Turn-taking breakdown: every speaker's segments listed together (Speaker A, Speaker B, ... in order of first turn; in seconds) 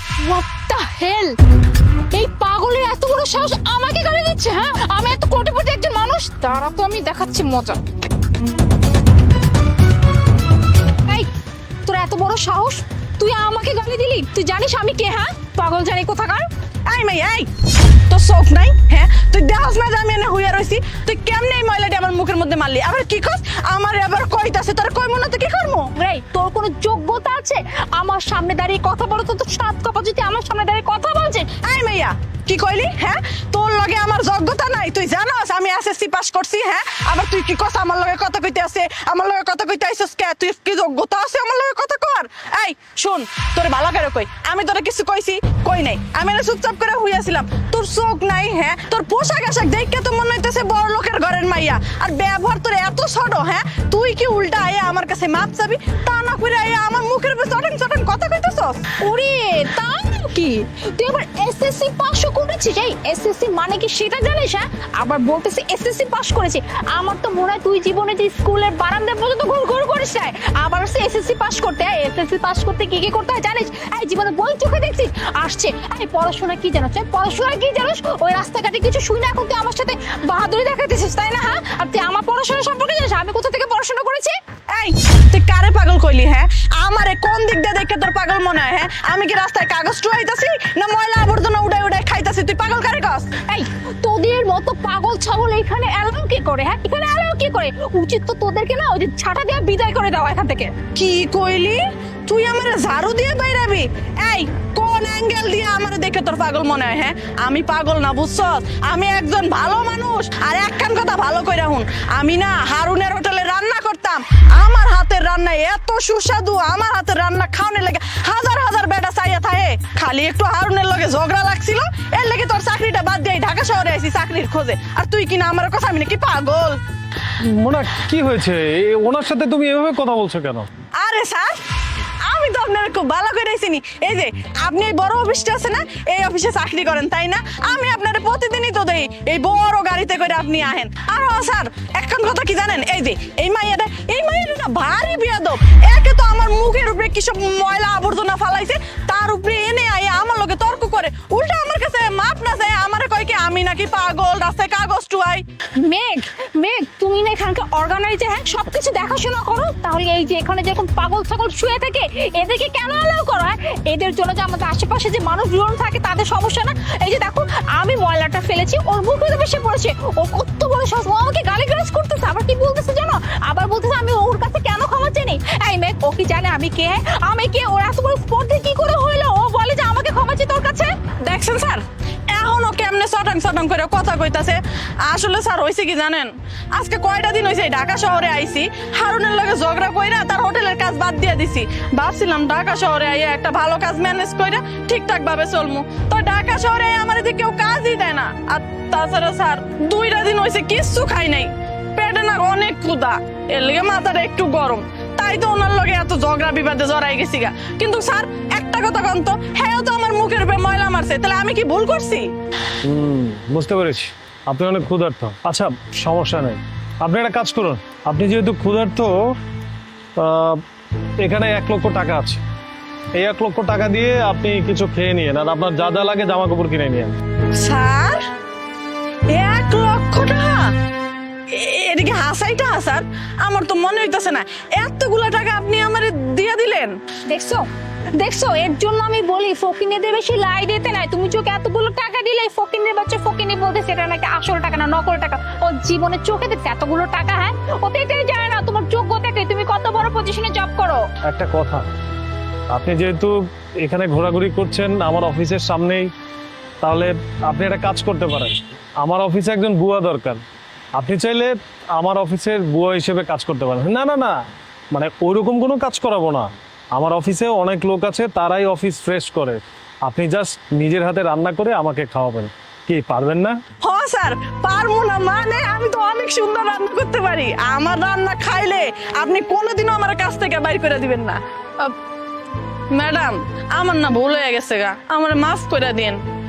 Speaker A: 0.2-1.3, 2.1-7.8, 11.8-16.5, 26.0-31.5, 59.0-84.3, 93.5-100.7, 155.8-180.9, 237.3-251.0
Speaker B: 16.9-17.5, 18.1-25.9, 31.6-58.8, 84.7-93.3, 101.0-126.8, 131.0-131.5, 132.3-155.4, 181.2-212.3, 227.6-228.2, 229.3-230.6, 231.5-237.0, 273.8-281.9, 282.9-286.2
Speaker C: 127.6-130.7, 212.8-219.4, 220.2-220.6, 221.2-222.4, 223.2-227.1, 251.3-251.8, 252.7-256.1, 256.8-260.4, 261.0-264.4, 264.9-273.6